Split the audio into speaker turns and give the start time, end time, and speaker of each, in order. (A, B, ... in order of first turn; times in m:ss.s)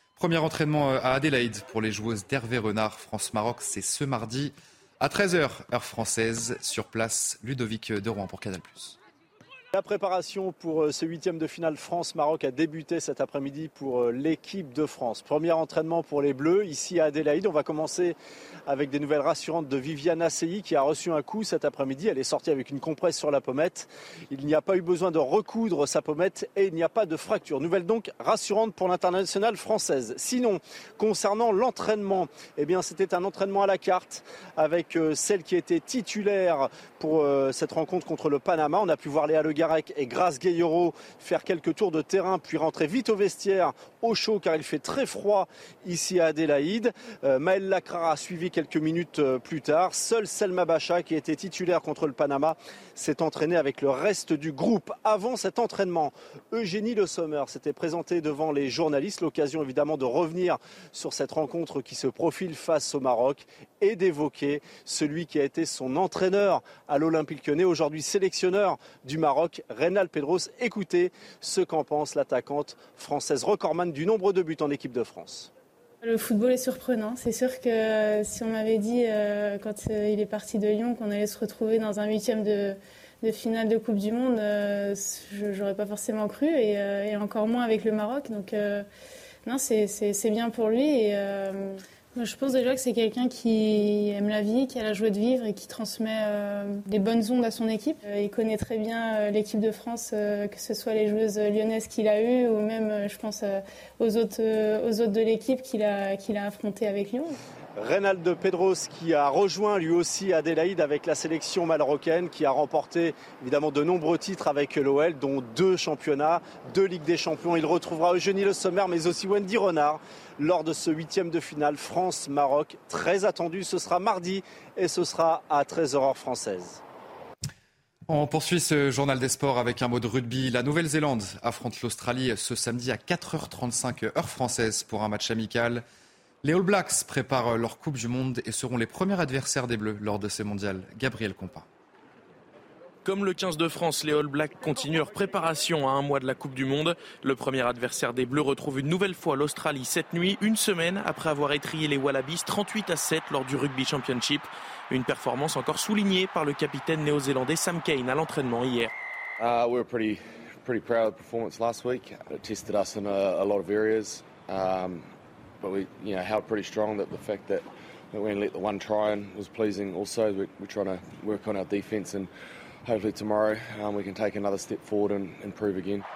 0:00.2-0:09.0 A
0:09.7-0:18.2 B
0:18.7-1:15.5 B
1:16.0-1:28.8 C
1:29.4-1:47.4 C
1:47.8-2:06.8 B
2:08.1-2:15.8 A
2:16.4-2:21.7 A
2:23.0-2:38.9 D
2:39.4-2:45.1 E
2:45.6-2:52.3 E
2:52.8-2:56.0 E